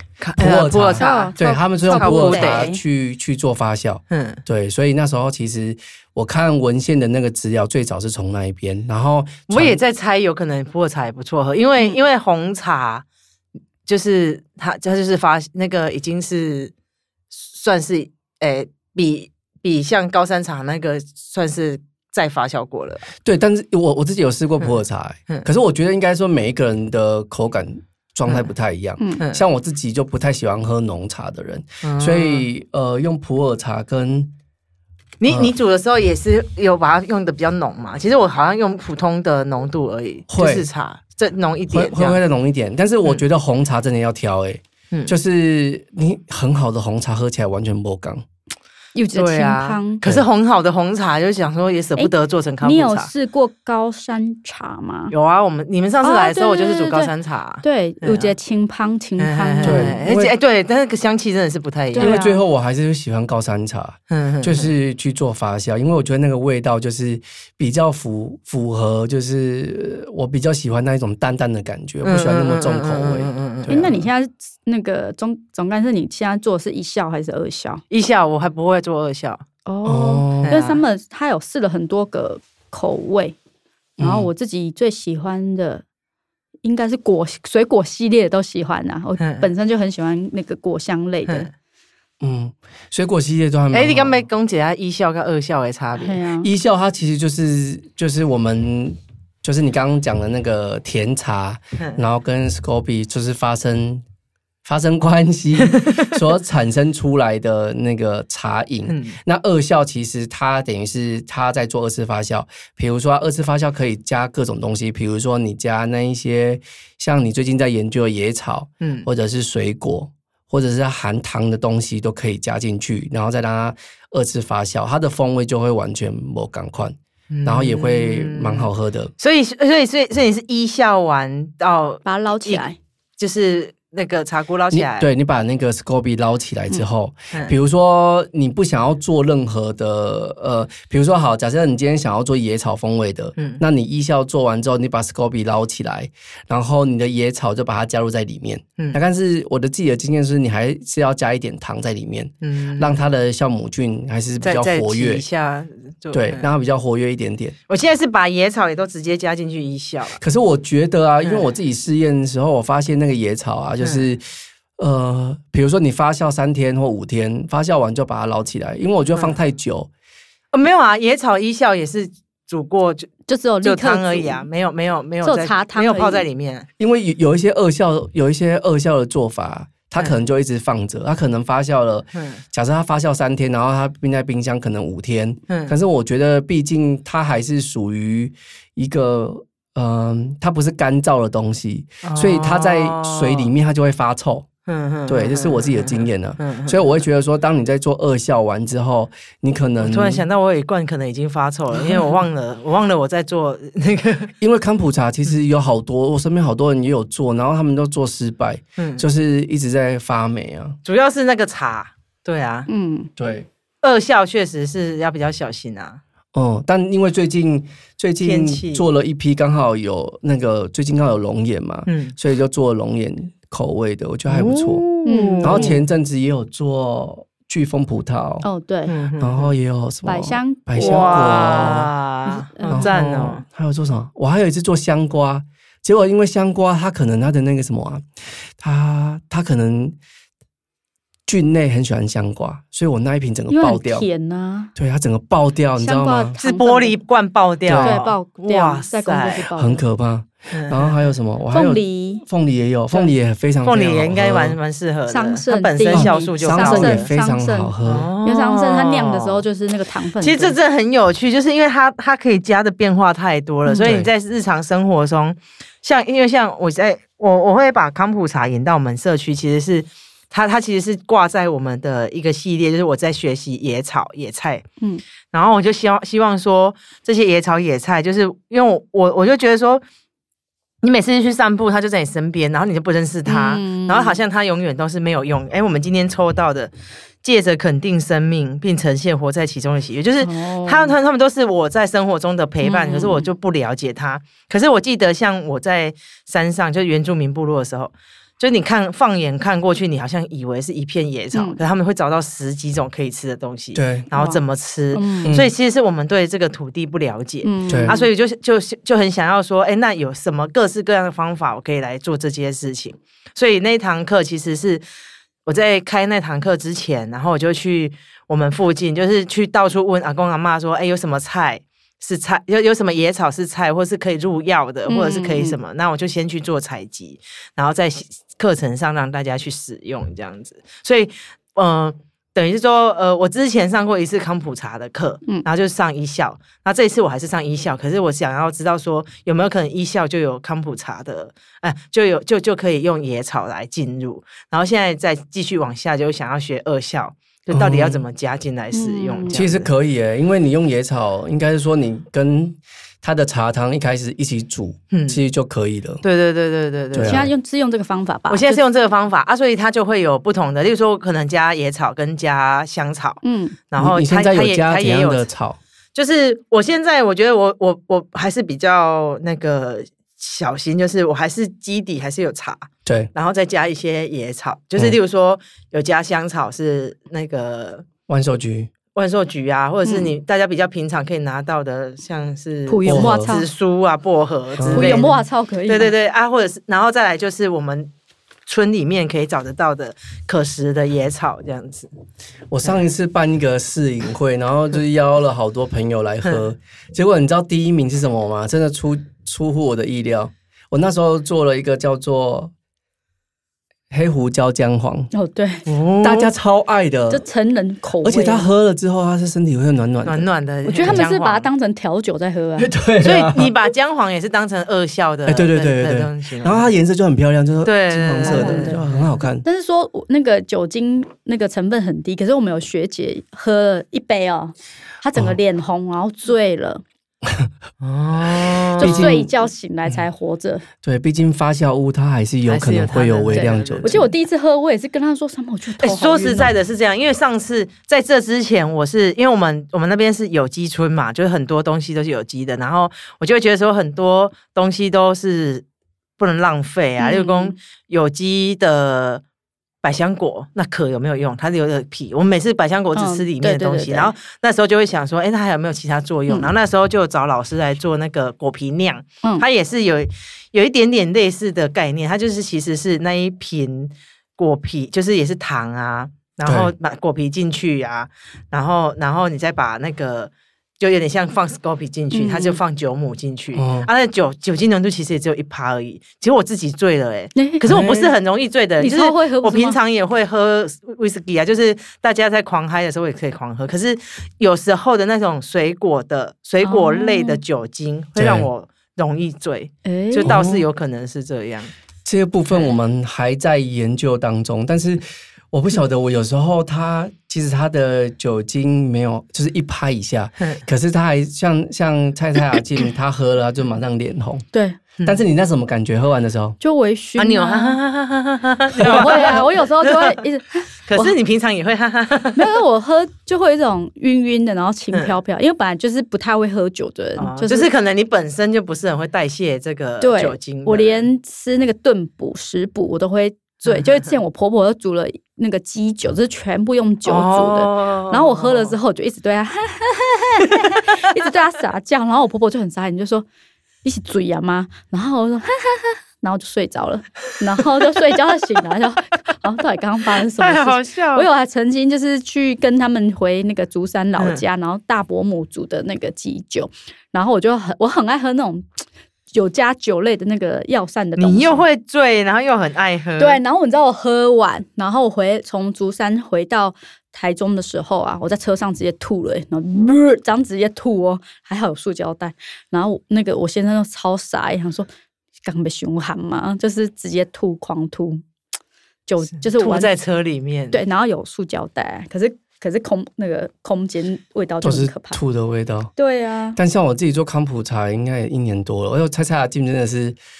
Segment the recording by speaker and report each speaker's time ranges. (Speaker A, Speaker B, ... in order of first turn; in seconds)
Speaker A: 0.2-2.6, 4.1-4.4, 9.5-13.0, 13.8-16.7, 17.3-23.1, 31.8-32.5, 35.2-42.2, 49.1-53.1, 55.1-58.3, 59.2-62.1, 64.1-64.7, 72.0-73.9, 77.9-79.4, 80.4-80.8, 89.2-89.5, 93.7-96.2, 105.6-106.0, 108.9-109.2, 118.8-119.1, 127.3-132.7, 133.2-135.1, 143.4-143.6, 152.4-153.0, 154.4-156.4, 157.7-160.2, 163.8-164.1, 169.1-169.4, 170.5-173.1, 173.6-176.7, 182.2-182.4, 185.5-185.7, 192.0-193.5, 194.7-196.9, 199.8-204.3, 208.8-209.1, 210.8-212.7, 213.8-216.0, 218.2-218.8, 221.9-222.1, 224.3-225.8, 228.9-229.5, 230.8-233.4, 246.4-249.5, 250.5-251.0, 253.6-257.1, 257.8-259.4, 260.2-274.6, 275.3-279.8, 280.8-286.7, 287.2-314.8, 315.4-349.7, 354.9-355.2, 356.0-357.2, 358.3-365.2, 365.9-377.9, 378.9-387.9, 388.5-391.9, 405.6-406.3, 410.0-411.5, 413.0-416.7, 417.6-419.0, 427.8-429.1, 432.5-434.1, 435.8-445.6, 446.2-449.2, 449.8-491.7, 507.2-510.2, 510.9-512.4, 517.2-521.1, 523.7-524.1, 527.0-528.7, 540.4-541.3, 551.2-553.4, 569.5-570.8
Speaker B: 0.4-9.8, 23.2-34.3, 40.3-40.7, 41.7-48.2, 59.6-60.3, 62.0-74.0, 79.8-80.6, 84.0-84.3, 92.2-94.2, 96.4-104.0, 104.6-129.1, 134.7-155.2, 156.1-157.5, 160.2-164.2, 164.8-169.9, 176.8-194.5, 195.1-200.2, 204.4-210.8, 213.2-213.5, 216.3-224.8, 225.4-228.4, 229.2-231.9, 232.7-238.1, 238.6-239.9, 241.3-244.1, 244.8-246.3, 247.7-248.0, 249.5-254.6, 255.9-258.1, 263.8-264.1, 303.7-304.1, 305.2-305.5, 307.7-307.9, 347.5-348.0, 349.3-356.0, 356.9-357.3, 363.8-365.6, 378.1-378.7, 382.9-383.3, 384.6-385.0, 392.5-402.5, 403.9-405.1, 406.0-407.2, 408.0-410.3, 412.6-413.5, 415.2-419.4, 428.8-429.3, 430.8-434.0, 466.4-466.7, 473.5-473.9, 477.7-478.1, 488.1-488.5, 490.2-490.6, 492.0-504.4, 505.0-506.6, 574.6-575.9, 576.5-580.2
Speaker C: 1.0-2.8, 48.9-50.0, 52.6-55.1, 56.0-60.0, 61.9-62.4, 73.7-77.8, 79.7-83.4, 84.0-85.8, 86.6-91.5, 96.0-96.5, 132.0-132.8, 173.3-174.4, 175.2-176.2, 212.7-213.1, 225.0-225.7, 228.4-228.9, 230.1-232.9, 243.5-244.7, 245.8-247.0, 247.8-249.8, 251.5-252.2, 255.1-260.6, 283.2-284.2, 290.2-290.9, 292.6-293.3, 301.3-301.6, 304.1-304.4, 304.9-305.4, 307.4-308.1, 324.9-325.6, 348.7-349.4, 357.0-358.6, 363.2-363.6, 379.8-380.1, 382.7-383.5, 384.6-385.9, 405.1-405.6, 407.1-408.5, 410.6-412.7, 418.2-418.8, 419.4-426.8, 428.8-430.6, 433.3-436.5, 447.0-447.5, 452.9-454.1, 472.1-472.6, 477.4-477.6, 478.8-479.8, 486.6-487.4, 489.8-490.3, 504.5-504.8, 506.6-507.8, 508.8-511.1, 512.4-517.7, 520.0-533.2, 533.8-548.6, 549.3-551.6, 553.2-564.9, 565.4-568.2, 569.1-569.9, 570.7-575.2, 576.0-576.6